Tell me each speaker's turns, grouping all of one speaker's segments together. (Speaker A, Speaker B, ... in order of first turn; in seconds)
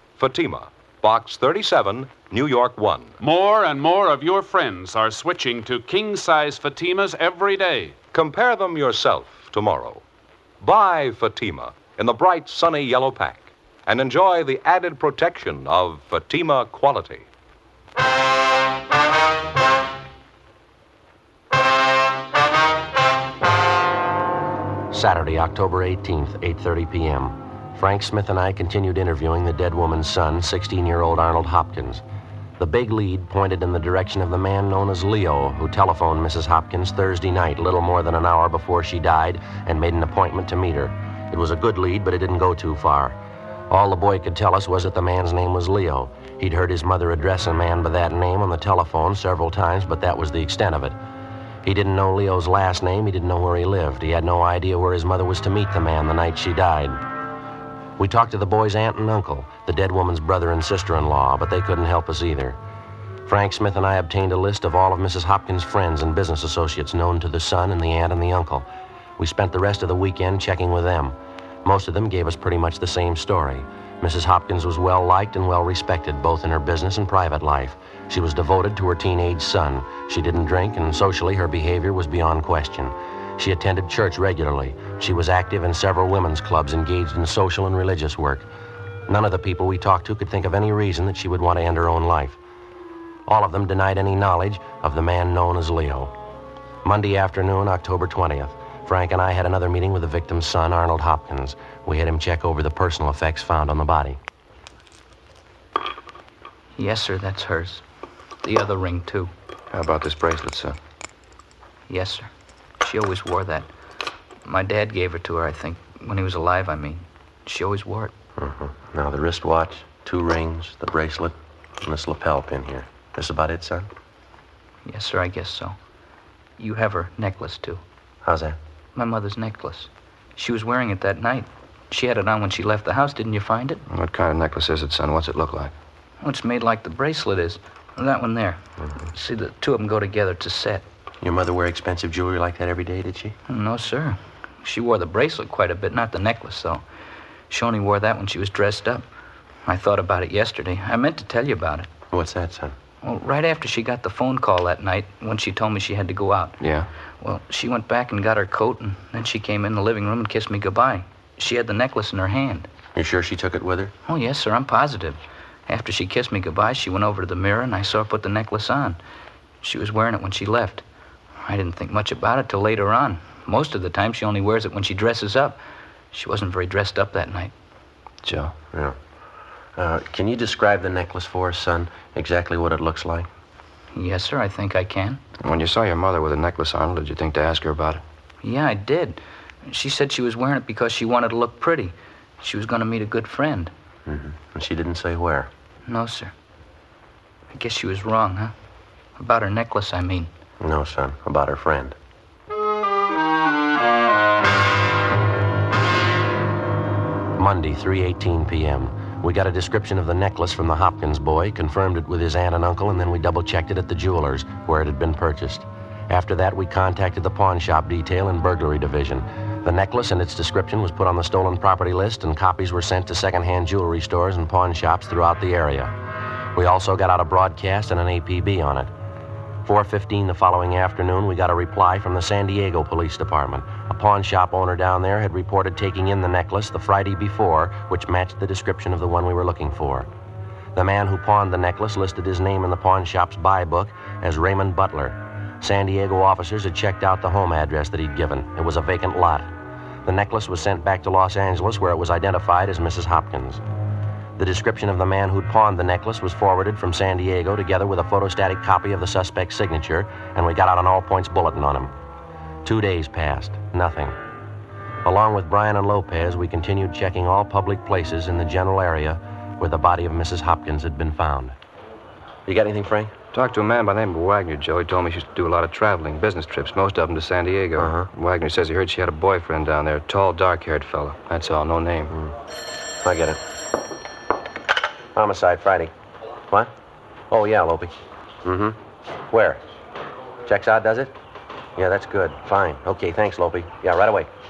Speaker A: 0.2-3.1, 8.1-10.0, 10.6-17.3
Speaker B: 3.2-8.0
Speaker C: 24.9-32.0, 32.6-43.2, 43.7-51.0, 51.6-57.0, 58.0-62.6, 63.3-68.7, 69.2-88.5, 89.1-92.4, 93.3-96.1, 96.8-104.2, 118.4-123.9, 128.2-128.6, 141.2-143.4, 152.1-152.8, 162.9-163.9, 179.8-183.3, 194.1-195.5, 200.6-202.0, 207.4-225.9, 226.6-228.9, 229.7-240.1, 240.8-249.5, 250.1-253.6, 254.4-261.9, 262.6-264.2, 265.0-271.6, 272.5-273.1, 277.8-278.1, 283.0-283.4, 285.1-285.9, 287.3-288.8, 289.3-289.6, 290.5-291.1, 291.8-294.3
Speaker D: 106.8-107.8, 108.4-109.3, 111.9-113.7, 114.4-118.1, 124.8-125.8, 126.6-127.8, 128.9-133.8, 136.2-138.6, 139.1-140.8, 143.5-146.8, 147.5-149.1, 149.6-151.9, 153.0-156.6, 157.2-162.7, 164.1-169.0, 169.6-170.8, 171.4-177.5, 183.9-185.2, 188.4-193.7, 195.9-196.3, 197.5-198.5, 199.2-200.3
Speaker E: 109.7-110.8, 133.9-135.7, 156.6-156.9, 178.2-178.5, 185.4-188.0, 273.3-282.1